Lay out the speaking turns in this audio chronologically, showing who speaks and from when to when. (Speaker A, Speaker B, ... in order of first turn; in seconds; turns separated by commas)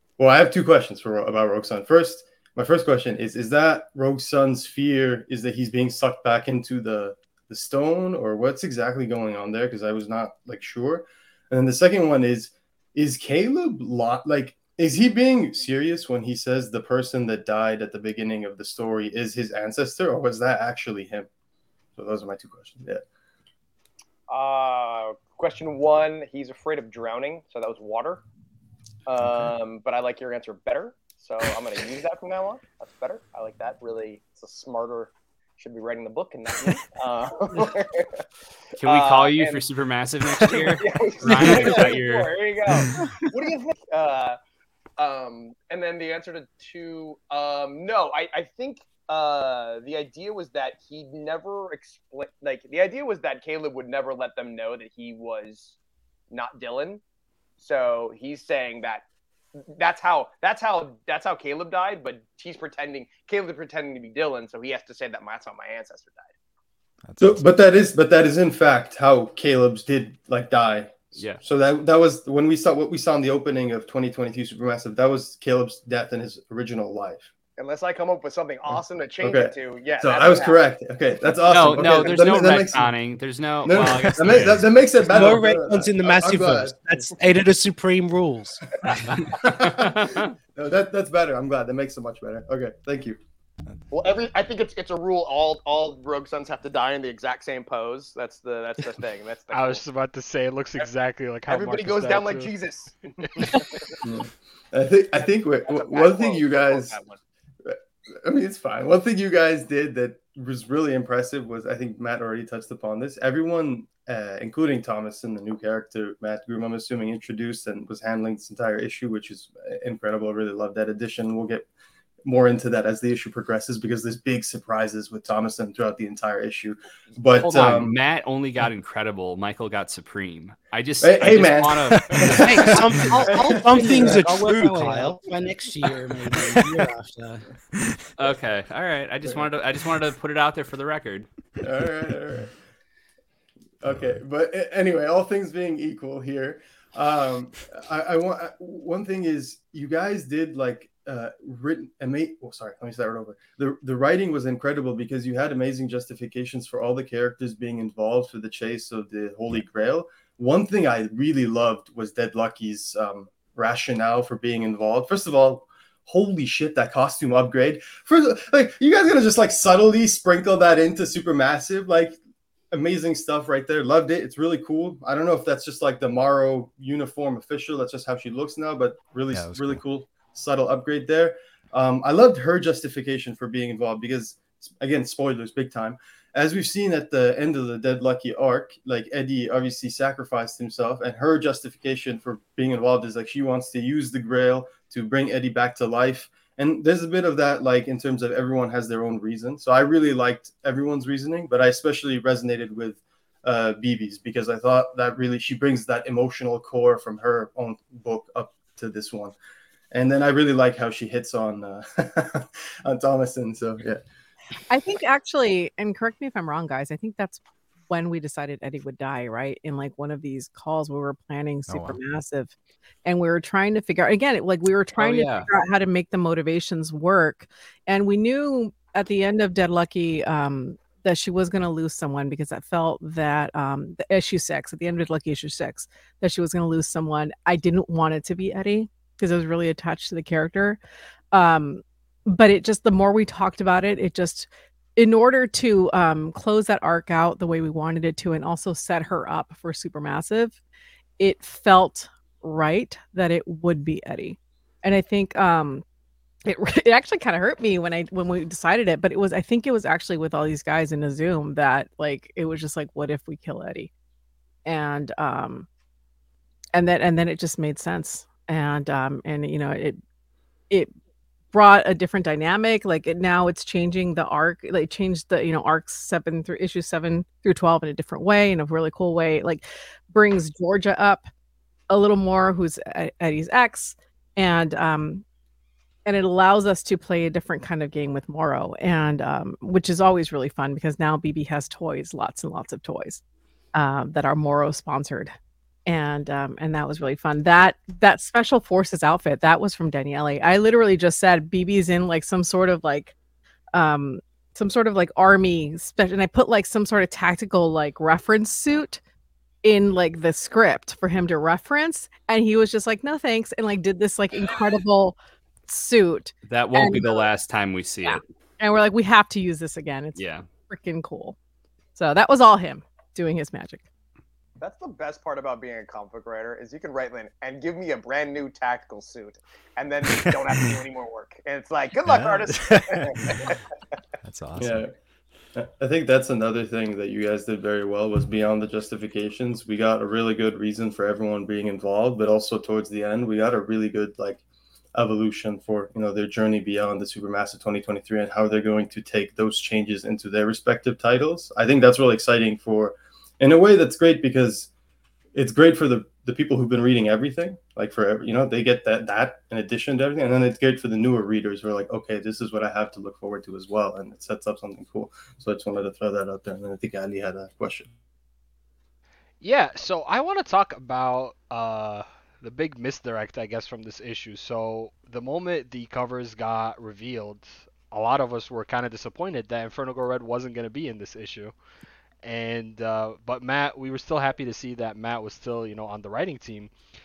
Speaker A: 0.2-21.3, Speaker A: 21.9-23.0, Speaker B: 24.3-28.2, Speaker B: 29.1-38.2, Speaker C: 29.2-29.5, Speaker D: 38.8-42.4, Speaker B: 38.8-39.6, Speaker B: 40.4-44.4, Speaker B: 45.0-55.7, Speaker B: 56.3-57.0, Speaker B: 57.6-59.0, Speaker B: 59.5-66.3, Speaker C: 67.0-67.4, Speaker A: 67.2-77.3, Speaker D: 71.1-71.4, Speaker B: 77.6-80.6, Speaker A: 78.7-82.9, Speaker D: 81.5-84.7, Speaker A: 83.6-87.1, Speaker E: 85.0-88.6, Speaker A: 89.3-93.2, Speaker D: 89.5-90.3, Speaker B: 93.9-99.8, Speaker F: 99.5-102.5, Speaker B: 101.5-104.0, Speaker A: 104.0-107.0, Speaker B: 105.6-107.2, Speaker A: 107.6-121.7, Speaker A: 122.2-127.9, Speaker D: 127.4-132.3, Speaker A: 131.0-134.2, Speaker E: 132.3-135.2, Speaker G: 133.3-137.4, Speaker D: 138.2-141.3, Speaker A: 141.6-142.5, Speaker A: 143.8-172.2, Speaker A: 172.7-209.3, Speaker C: 179.3-179.8, Speaker A: 209.9-214.0, Speaker H: 214.7-222.5, Speaker C: 221.7-222.0, Speaker H: 223.0-240.8, Speaker D: 225.0-225.5, Speaker H: 241.3-250.5, Speaker H: 251.2-255.8, Speaker H: 256.4-263.9, Speaker H: 264.6-265.6, Speaker H: 266.7-270.0, Speaker H: 271.5-281.3, Speaker H: 281.9-285.2, Speaker H: 286.1-293.2, Speaker H: 293.7-295.3, Speaker H: 295.9-303.1, Speaker H: 303.7-309.0, Speaker H: 309.6-315.1, Speaker H: 315.7-317.3, Speaker D: 316.5-318.2, Speaker H: 318.0-321.4, Speaker D: 320.1-320.4, Speaker H: 321.9-323.8, Speaker B: 324.6-333.6, Speaker C: 332.1-333.4, Speaker C: 334.2-334.9, Speaker A: 334.6-334.9, Speaker A: 335.5-344.4, Speaker A: 344.9-354.7, Speaker A: 355.3-367.9, Speaker F: 369.4-381.5, Speaker F: 382.2-386.7